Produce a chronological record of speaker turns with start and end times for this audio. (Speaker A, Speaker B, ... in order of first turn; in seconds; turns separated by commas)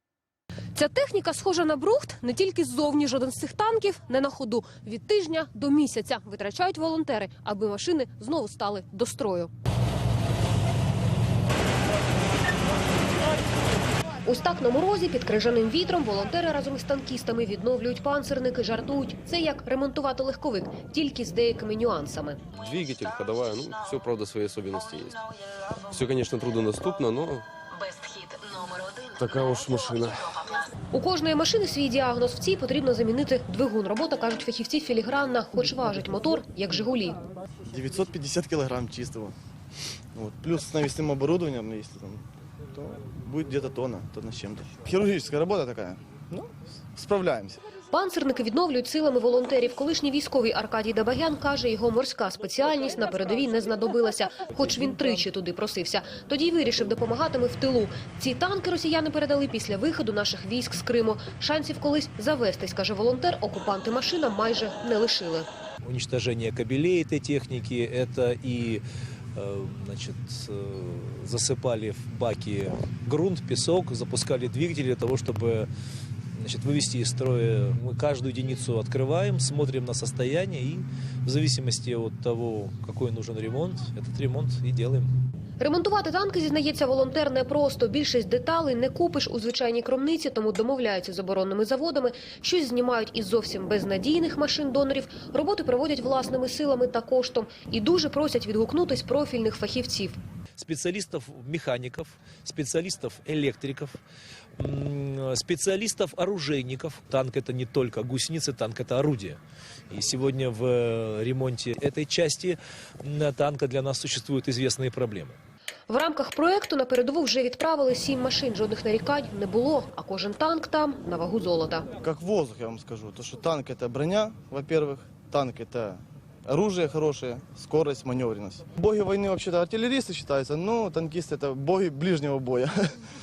Speaker A: 0.7-9.5, Speaker A: 14.2-22.4, Speaker B: 22.5-25.2, Speaker B: 25.9-27.5, Speaker B: 28.6-30.5, Speaker A: 30.9-37.2, Speaker C: 37.6-39.4, Speaker C: 40.1-47.6, Speaker A: 47.9-65.5, Speaker D: 65.8-68.8, Speaker D: 69.3-75.7, Speaker D: 76.3-85.1, Speaker A: 85.6-100.2, Speaker D: 100.6-104.0, Speaker D: 104.6-109.4, Speaker D: 109.9-115.4, Speaker A: 115.9-121.9, Speaker C: 122.0-132.9